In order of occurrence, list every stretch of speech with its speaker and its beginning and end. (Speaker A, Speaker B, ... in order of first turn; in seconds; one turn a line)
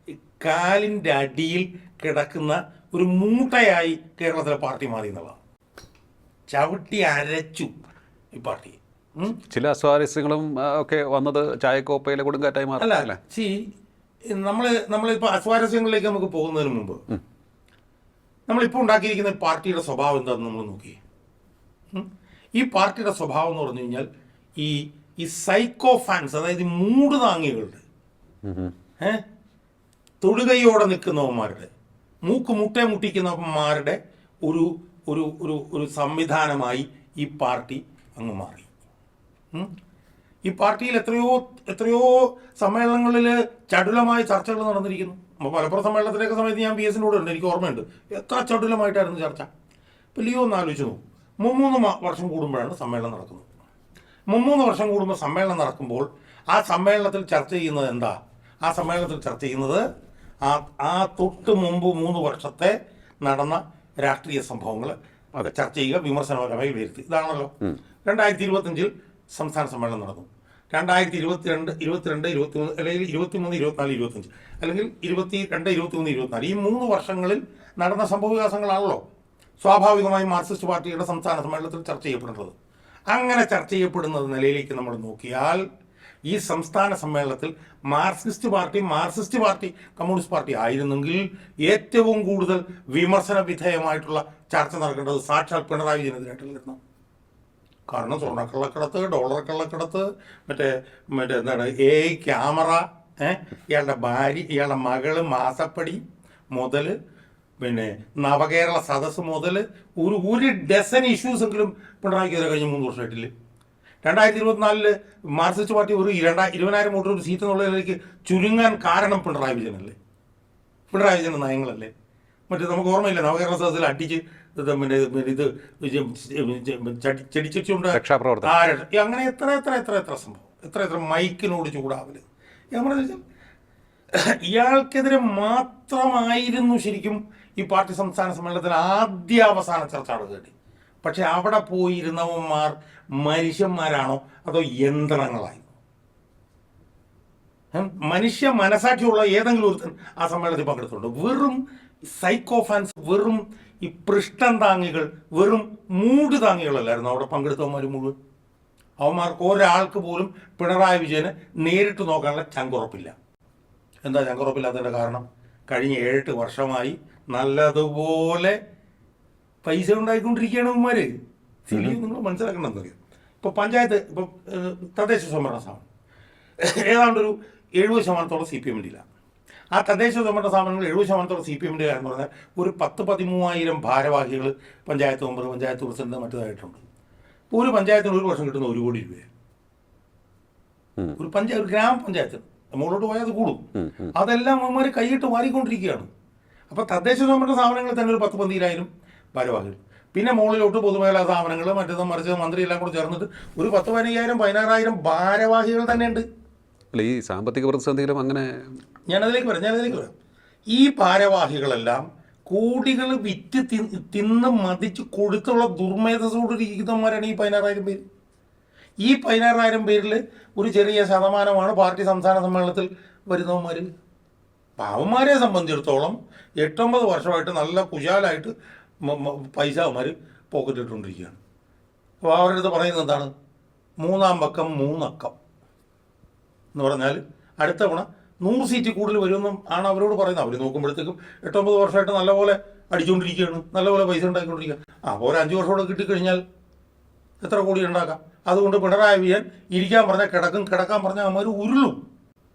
Speaker A: 0.4-5.4
Speaker A: 6.5-7.7
Speaker A: 8.3-9.4
Speaker B: 9.5-13.2
Speaker A: 12.8-13.6
Speaker A: 14.3-17.0
Speaker A: 18.5-21.0
Speaker A: 21.9-24.1
Speaker A: 24.6-27.8
Speaker B: 28.4-28.7
Speaker A: 30.2-31.7
Speaker A: 32.2-38.7
Speaker A: 40.5-49.5
Speaker A: 50.1-53.5
Speaker A: 54.3-59.8
Speaker A: 60.4-65.0
Speaker A: 65.5-67.5
Speaker A: 68.0-79.0
Speaker A: 79.6-82.5
Speaker A: 83.1-85.6
Speaker A: 86.3-96.8
Speaker A: 97.9-106.0
Speaker A: 106.5-106.9
Speaker A: 107.6-113.3
Speaker A: 114.0-119.9
Speaker A: 120.9-121.9
Speaker A: 122.5-133.2
Speaker B: 127.9-128.5
Speaker A: 134.1-145.7
Speaker A: 147.7-158.1
Speaker A: 159.0-163.1
Speaker A: 164.0-168.6
Speaker A: 169.6-171.1
Speaker A: 171.7-175.8
Speaker A: 176.6-179.0
Speaker A: 179.7-186.8
Speaker A: 187.5-189.3
Speaker A: 191.1-193.6
Speaker B: 193.8-194.1
Speaker A: 194.1-196.1
Speaker A: 196.7-206.2
Speaker B: 206.9-208.7
Speaker A: 209.1-210.1
Speaker A: 210.7-218.0
Speaker A: 219.0-223.9
Speaker A: 224.8-231.4
Speaker A: 232.2-233.3
Speaker A: 234.0-235.3
Speaker A: 236.7-246.4
Speaker A: 247.4-252.0